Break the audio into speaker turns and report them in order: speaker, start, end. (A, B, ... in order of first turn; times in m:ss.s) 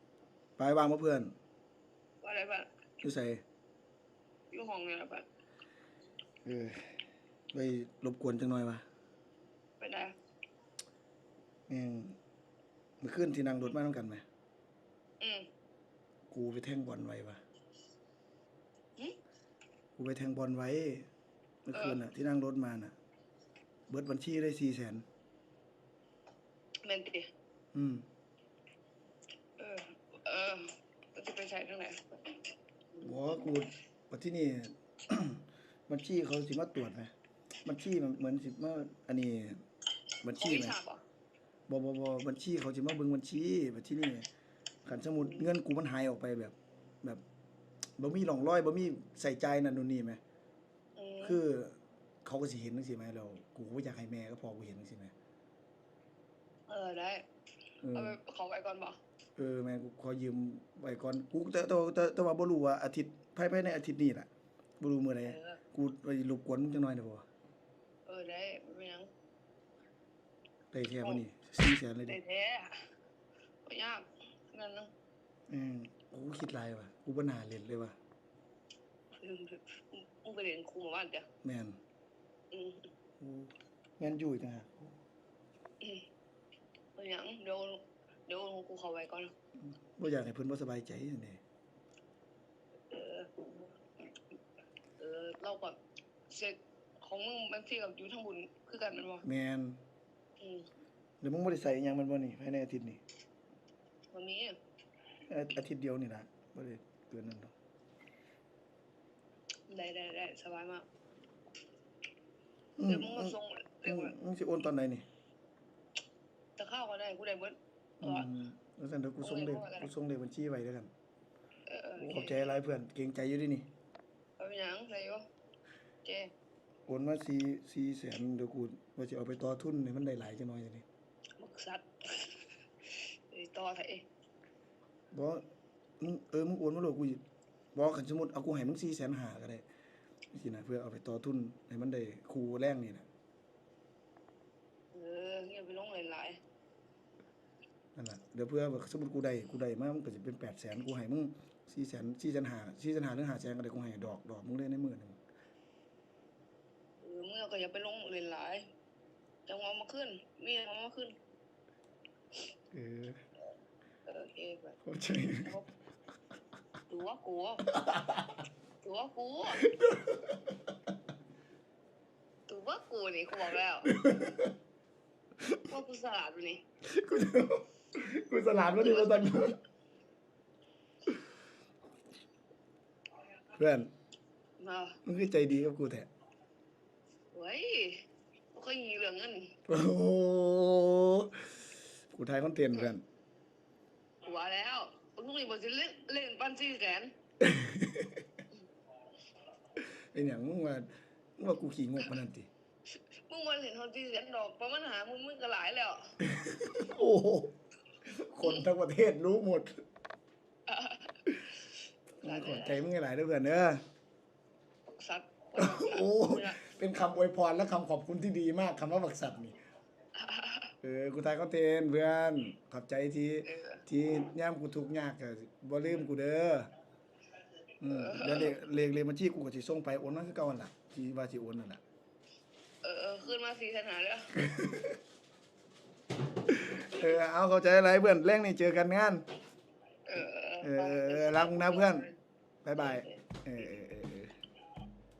0:00.6-0:01.3 A
0:02.2-0:02.7 B
0:03.0-0:03.4 A
0:04.5-0:05.3 B
0:06.4-0:07.0 A
0:07.5-0:08.8 A
0:09.8-0:10.2 B
0:11.7-0:12.2 A
0:13.0-0:14.2 A
0:15.2-0:15.5 B
0:16.3-0:17.4 A
0:20.0-0:21.1 A
0:21.6-0:22.9 A
0:21.7-0:22.0 B
0:23.9-0:25.0 A
0:26.8-0:27.3 B
0:27.7-0:28.0 A
0:29.6-0:32.0 B
0:33.0-0:37.1 A
0:37.6-0:39.6 A
0:40.2-0:40.8 A
0:40.4-0:41.0 B
0:41.7-0:44.3 A
0:44.8-0:47.2 A
0:48.0-0:50.2 A
0:51.0-0:51.4 B
0:51.2-0:55.1 A
0:56.7-0:57.2 B
0:57.8-0:58.2 A
0:57.9-0:59.0 B
0:59.4-1:04.3 A
1:04.8-1:07.2 A
1:05.2-1:05.6 B
1:08.1-1:09.1 B
1:10.7-1:12.2 A
1:12.0-1:12.9 B
1:13.7-1:14.9 B
1:15.5-1:18.0 A
1:19.2-1:21.3 B
1:21.4-1:21.8 A
1:22.5-1:22.9 B
1:23.2-1:24.9 A
1:27.0-1:29.3 B
1:29.6-1:31.4 A
1:32.9-1:33.7 B
1:35.0-1:35.8 B
1:36.3-1:39.2 B
1:39.2-1:39.8 A
1:40.4-1:40.7 B
1:41.2-1:43.0 A
1:44.1-1:44.6 B
1:45.3-1:47.5 A
1:49.7-1:50.8 B
1:52.8-1:55.0 A
1:52.8-1:54.2 B
1:56.6-1:58.3 B
1:58.0-2:00.9 A
1:59.2-1:59.9 B
2:01.7-2:02.4 B
2:02.0-2:03.7 A
2:04.4-2:05.2 B
2:06.0-2:06.3 B
2:06.9-2:10.8 A
2:11.4-2:14.0 B
2:15.1-2:15.4 A
2:16.0-2:17.2 A
2:17.7-2:19.6 A
2:20.3-2:23.1 A
2:24.9-2:26.4 B
2:28.0-2:35.2 A
2:37.0-2:38.7 B
2:39.5-2:41.2 B
2:42.7-2:43.2 A
2:44.1-2:44.8 B
2:44.8-2:45.6 A
2:46.9-2:47.7 B
2:47.7-2:48.4 A
2:48.8-2:49.6 B
2:49.6-2:50.6 A
2:52.5-2:54.1 B
2:53.9-2:54.5 A
2:55.6-2:56.6 B
2:56.8-2:59.6 A
2:58.7-2:59.4 B
3:03.6-3:03.9 A
3:04.6-3:05.0 B
3:05.1-3:06.1 A
3:07.3-3:09.5 B
3:09.7-3:13.0 A
3:14.2-3:17.1 B
3:17.4-3:18.2 A
3:19.8-3:20.9 A
3:21.4-3:22.5 A
3:23.3-3:26.1 B
3:26.2-3:27.5 A
3:28.1-3:29.8 A
3:30.7-3:31.6 B
3:32.2-3:32.8 B
3:32.2-3:33.8 A
3:35.0-3:36.6 B
3:35.6-3:39.6 A
3:40.2-3:40.8 B
3:40.8-3:46.7 A
3:43.5-3:43.8 B
3:47.8-3:51.8 A
3:47.9-3:48.6 B
3:52.8-3:54.3 B
3:54.4-3:55.0 A
3:56.5-3:59.2 A
4:00.1-4:02.2 B
4:00.6-4:02.1 A
4:02.6-4:04.4 A
4:02.8-4:03.3 B